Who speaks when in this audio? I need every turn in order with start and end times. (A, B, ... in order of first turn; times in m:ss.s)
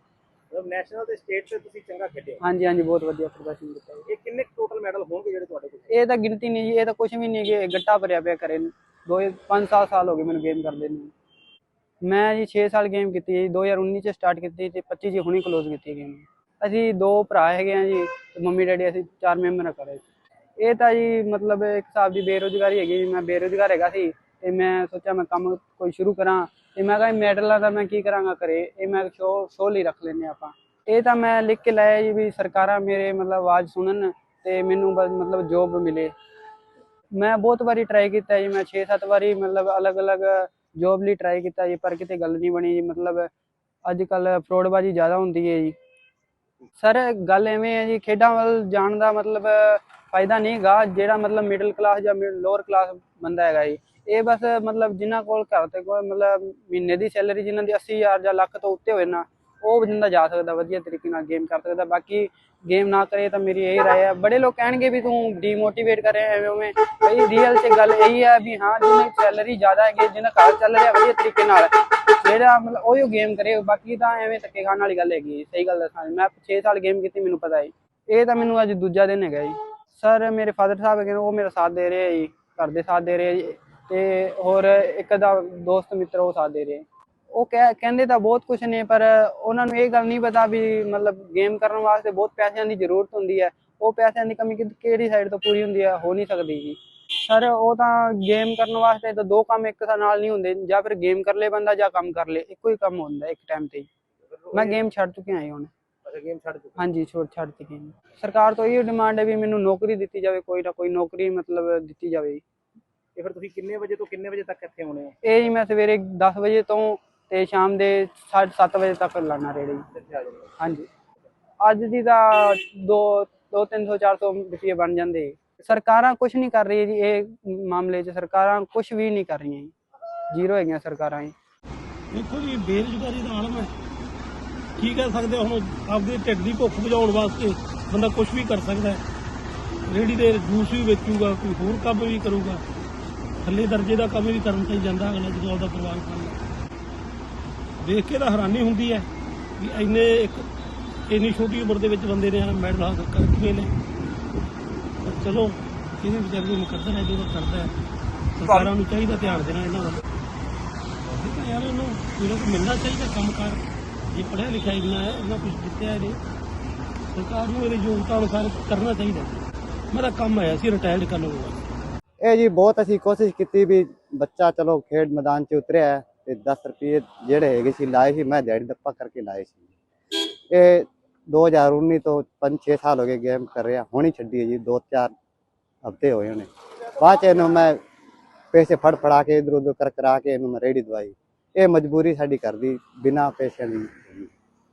0:00.5-0:02.4 A
0:02.4-0:04.0 B
0:04.1-0:05.9 A
0:05.9-0:11.1 B
0:12.0-0:20.0 B
0:20.6-0:36.1 B
0:37.1-0:43.3 B
0:43.9-0:45.8 B
0:46.8-1:43.9 B
1:44.5-1:44.8 A
1:44.5-1:45.7 B
1:46.0-1:46.8 A
1:46.8-1:52.4 B
1:53.2-1:55.2 A
1:55.2-1:59.8 B
2:00.0-2:00.4 A
2:00.6-2:00.9 B
2:01.6-2:09.7 B
2:10.3-2:11.3 B
2:12.1-2:13.7 C
2:14.8-2:19.0 C
2:19.9-2:22.6 C
2:23.4-2:26.4 C
2:27.8-2:30.4 C
2:31.1-2:33.7 C
2:35.0-2:37.7 C
2:38.4-2:40.0 C
2:41.1-2:46.2 C
2:47.1-2:49.4 C
2:49.9-2:51.7 C
2:52.2-2:59.6 D
3:00.5-3:05.1 D
3:05.8-3:07.8 D
3:08.5-3:14.3 D